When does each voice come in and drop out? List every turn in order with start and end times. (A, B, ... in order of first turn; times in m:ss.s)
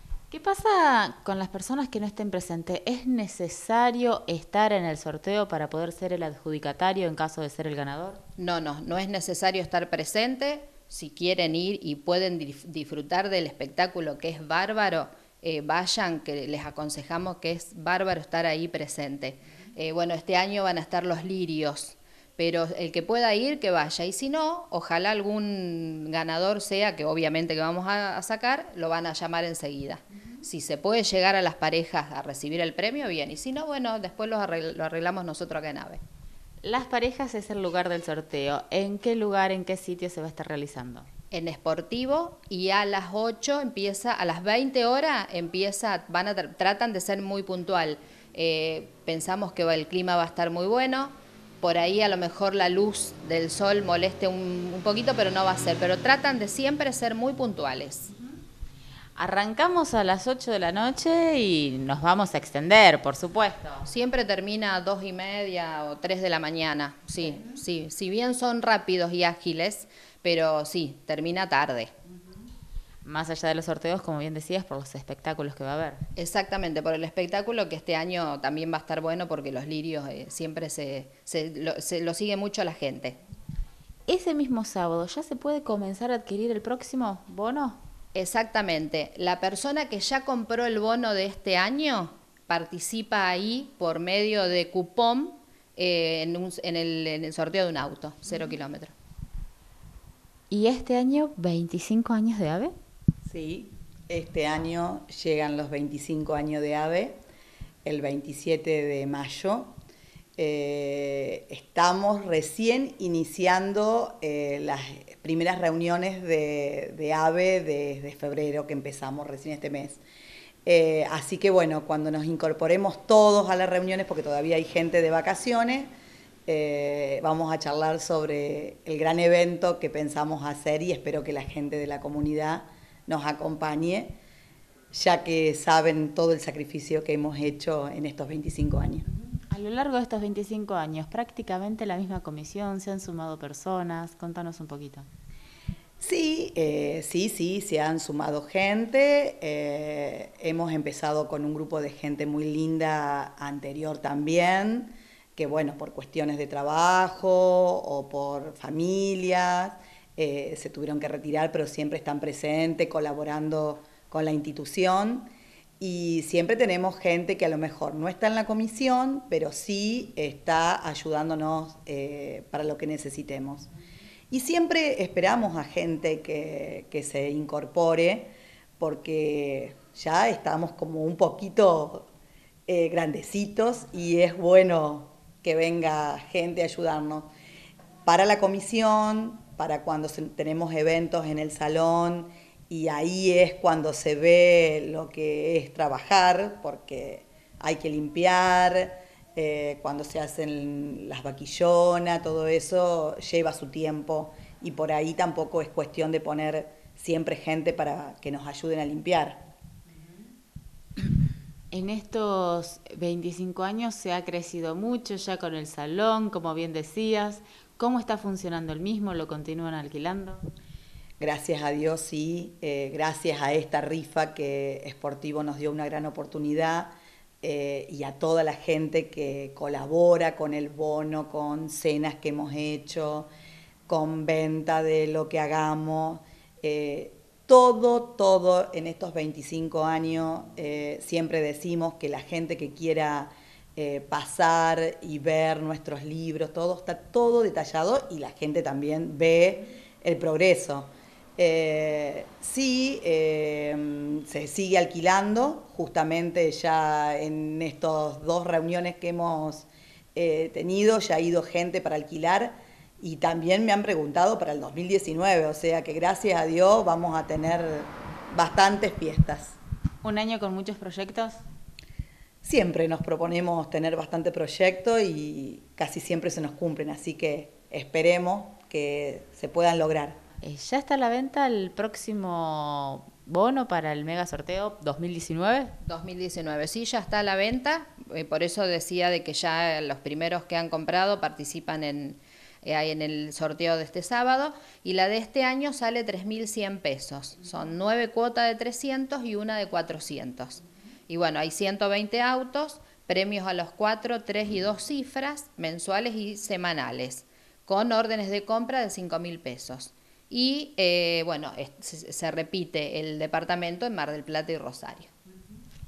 0:00.3-0:08.2 A
0:08.4-0:36.0 B
0:36.6-0:41.1 A
0:41.3-0:58.1 B
0:59.2-1:03.8 A
1:03.8-1:11.9 B
1:13.0-1:16.0 A
1:16.2-1:23.2 B
1:24.1-1:27.8 A
1:28.1-1:38.9 B
1:40.5-1:42.7 A
1:43.2-1:47.2 C
1:47.8-1:49.8 C
1:50.4-2:00.0 C
2:00.6-2:05.9 C
2:06.4-2:14.2 C
2:14.9-2:19.0 C
2:19.3-2:25.1 A
2:26.0-2:45.3 C
2:45.8-2:53.7 C
2:54.3-3:02.1 C
3:02.7-3:07.3 C
3:08.0-3:29.5 C
3:31.7-3:40.4 A
3:41.2-3:53.3 C
3:53.9-4:29.6 C
4:30.0-4:31.4 A
4:32.4-4:40.2 C
4:40.4-4:45.7 A
4:45.8-5:15.1 B